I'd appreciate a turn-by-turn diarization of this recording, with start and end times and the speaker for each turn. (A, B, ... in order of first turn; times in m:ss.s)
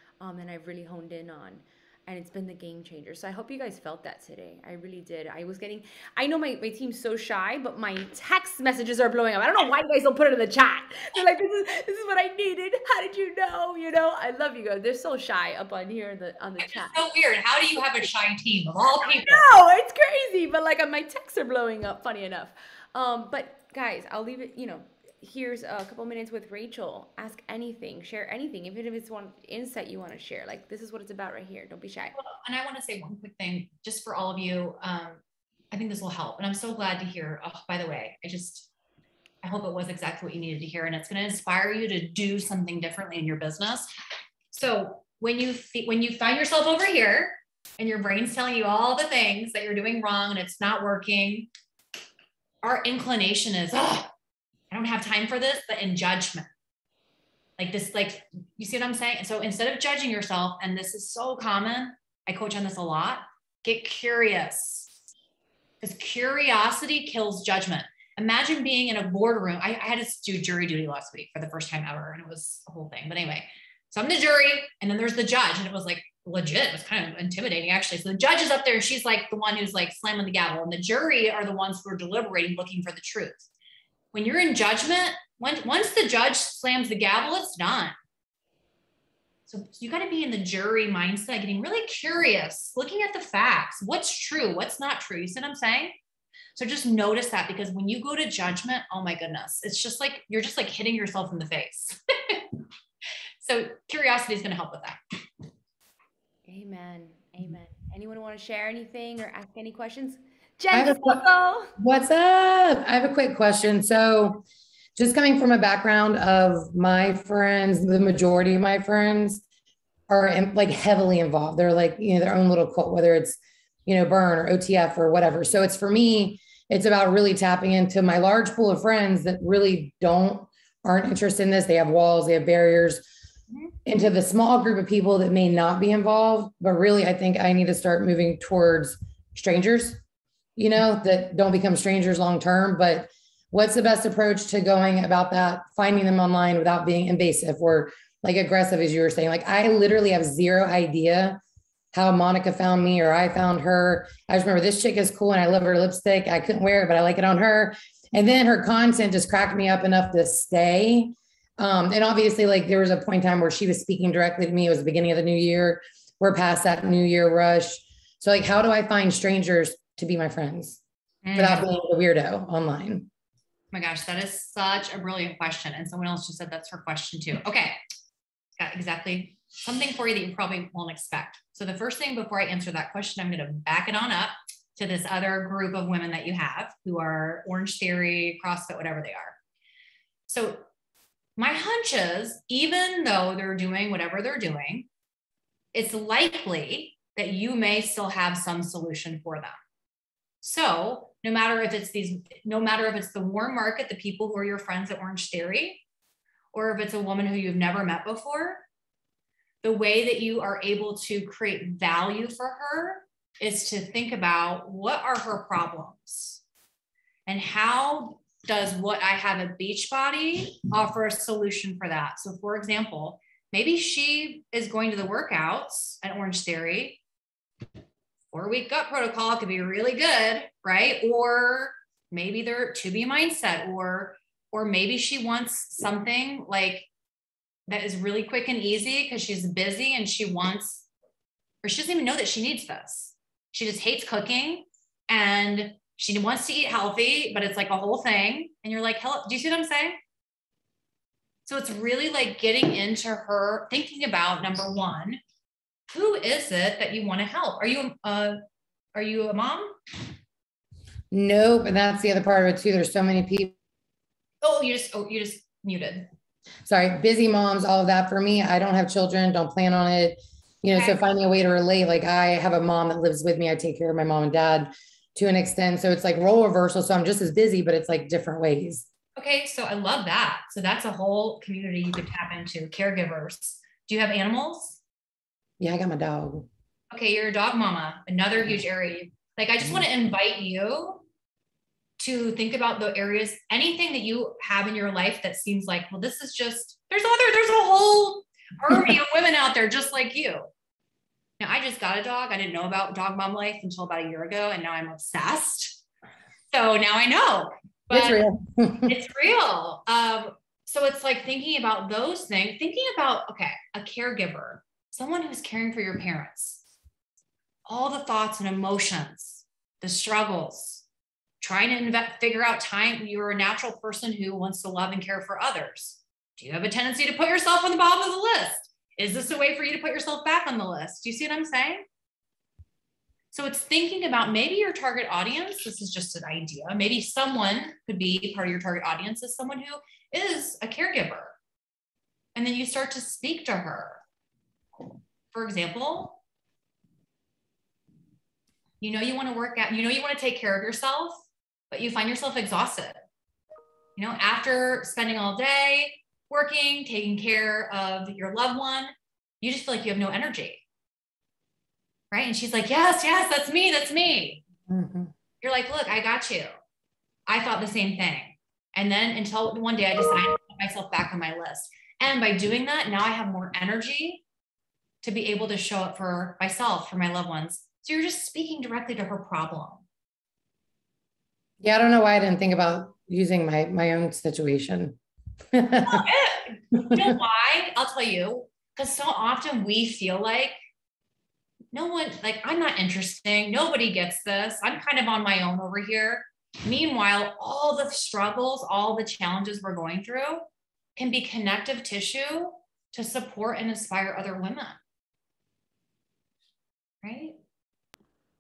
0:00.2-0:17.0 A
0:16.6-0:19.4 B
0:19.0-0:32.2 A
0:32.1-0:38.7 B
0:39.4-0:43.9 B
0:44.5-0:51.5 B
0:52.6-0:54.1 B
0:54.7-0:56.5 B
0:57.6-1:04.9 B
1:05.8-1:23.5 B
1:24.1-1:27.9 B
1:29.5-1:36.0 B
1:36.6-1:42.5 B
1:43.4-1:45.0 B
1:46.5-1:51.7 A
1:50.7-1:51.2 C
1:51.8-1:54.4 C
1:55.0-1:59.4 C
2:00.1-2:13.0 C
2:13.9-2:20.0 C
2:20.6-2:31.4 C
2:31.9-2:50.8 C
2:51.2-2:51.7 B
2:51.3-2:53.1 C
2:53.7-2:57.8 B
2:58.6-3:09.4 B
3:10.3-3:10.6 B
3:11.4-3:14.9 B
3:15.7-3:19.6 B
3:20.4-3:25.8 B
3:26.5-3:28.6 B
3:29.6-3:36.4 B
3:37.2-3:47.0 B
3:48.3-3:56.9 B
3:57.7-4:00.9 B
4:01.6-4:10.0 B
4:11.4-4:15.2 B
4:15.9-4:18.4 B
4:18.9-4:19.8 B
4:21.1-4:23.5 C
4:24.4-4:26.1 B
4:26.6-4:38.9 C
4:30.7-4:31.0 B
4:39.2-4:44.8 B
4:45.6-4:46.5 C
4:46.9-4:51.0 B
4:52.0-5:00.5 B
5:01.4-5:05.8 B
5:06.5-5:08.2 B
5:07.9-5:08.9 C
5:08.9-5:16.6 B
5:17.6-5:20.8 B
5:21.4-5:31.8 B
5:33.3-5:41.4 B
5:42.4-5:44.0 B
5:45.3-5:46.2 B
5:48.8-5:52.9 B
5:54.0-6:00.6 B
6:02.1-6:04.4 B
6:04.7-6:05.1 C
6:05.4-6:06.5 B
6:07.3-6:14.2 B
6:15.0-6:19.8 B
6:21.6-6:25.0 C
6:25.5-6:26.0 C
6:25.8-6:30.6 B
6:31.7-6:40.4 B
6:41.0-6:44.8 B
6:47.0-6:47.4 B